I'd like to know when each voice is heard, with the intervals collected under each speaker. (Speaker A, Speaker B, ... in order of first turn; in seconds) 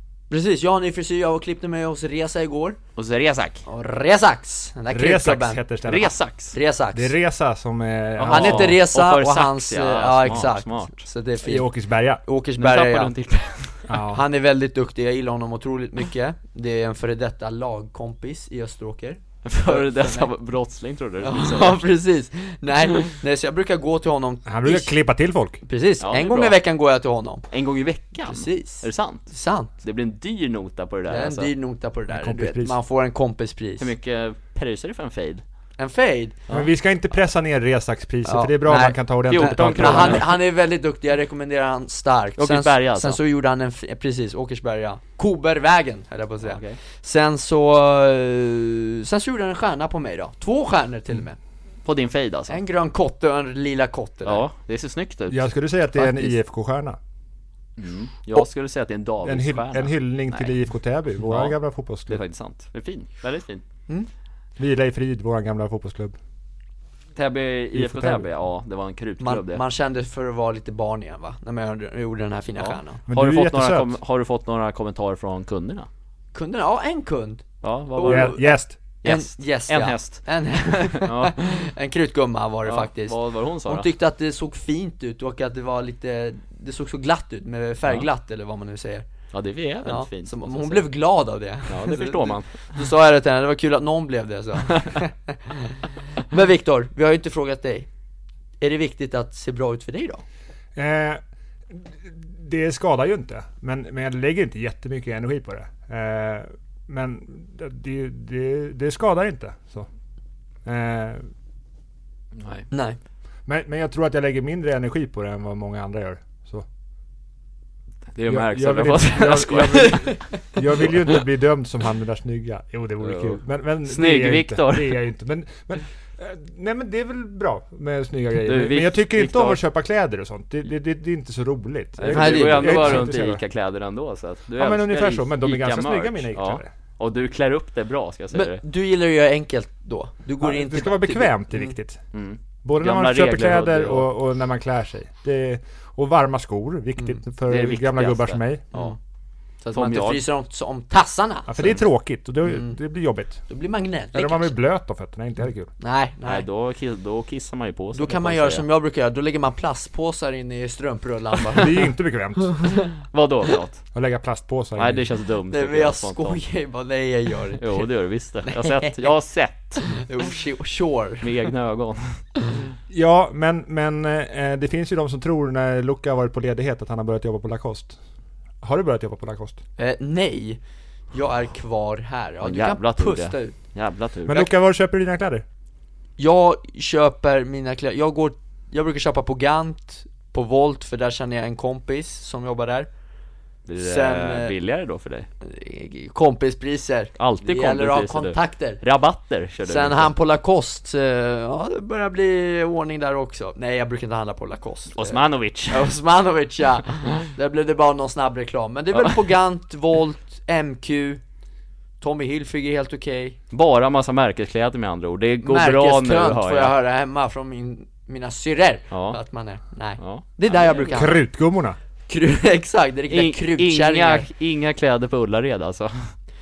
Speaker A: 0.3-2.8, 3.7-5.6, 6.5-7.1, 8.3-11.7, 12.2-13.1, 14.1-20.3, 21.2-24.9, 25.6-27.5, 28.2-29.7, 31.1-33.9, 35.8-36.4, 38.2-51.4, 52.5-54.4, 56.0-56.3, 69.2-73.0, 76.3-89.1, 89.8-97.9, 98.6-100.2, 112.7-113.0, 132.1-133.1, 138.3-141.8, 149.6-151.6, 152.5-152.8, 153.5-154.5, 155.8-156.4, 157.9-161.9, 162.5-162.9, 165.5-167.9, 168.4-169.0, 169.8-171.3, 179.8-180.6, 181.1-183.6, 186.2-192.9, 193.8-194.5, 195.4-198.8, 199.6-211.2, 212.0-213.4, 215.4-221.2, 222.1-224.3
Speaker B: 3.0-3.6, 5.9-6.6, 8.2-11.0, 12.6-13.9, 19.4-21.8, 26.0-26.6, 27.5-31.5, 33.8-35.4, 39.3-40.4, 42.4-43.2, 46.4-46.8, 51.9-52.6, 54.2-55.5, 57.8-60.5, 61.2-61.6, 62.1-63.6, 67.2-69.6, 72.6-75.9, 77.6-78.4, 79.0-80.2, 80.8-81.5, 82.6-83.9, 89.3-90.9, 91.7-92.7, 112.3-112.7, 118.1-120.2, 123.0-125.0, 128.4-129.6, 132.0-138.6, 142.1-144.1, 147.5-148.9, 149.7-150.2, 156.2-158.6, 163.1-163.8, 164.8-166.4, 167.6-169.9, 171.2-172.2, 182.4-184.5, 193.7-195.3, 197.2-200.1, 204.9-205.9, 213.5-216.8, 218.9-219.2, 220.0-221.0, 223.1-226.1
Speaker C: 4.9-6.1, 6.9-8.8, 11.4-12.2, 13.9-14.2, 24.5-25.6, 32.1-32.8, 36.5-40.3, 55.3-57.0, 59.2-62.2, 64.6-66.1, 67.7-68.2, 73.1-73.9, 78.1-78.8, 100.8-109.9, 110.6-111.3, 113.5-116.7, 118.3-133.4, 134.6-136.7, 140.4-142.0, 142.6-148.7, 151.5-153.4, 154.1-155.7, 161.6-162.8, 163.9-165.1, 172.9-178.0, 178.6-179.6, 184.3-185.4, 220.9-221.8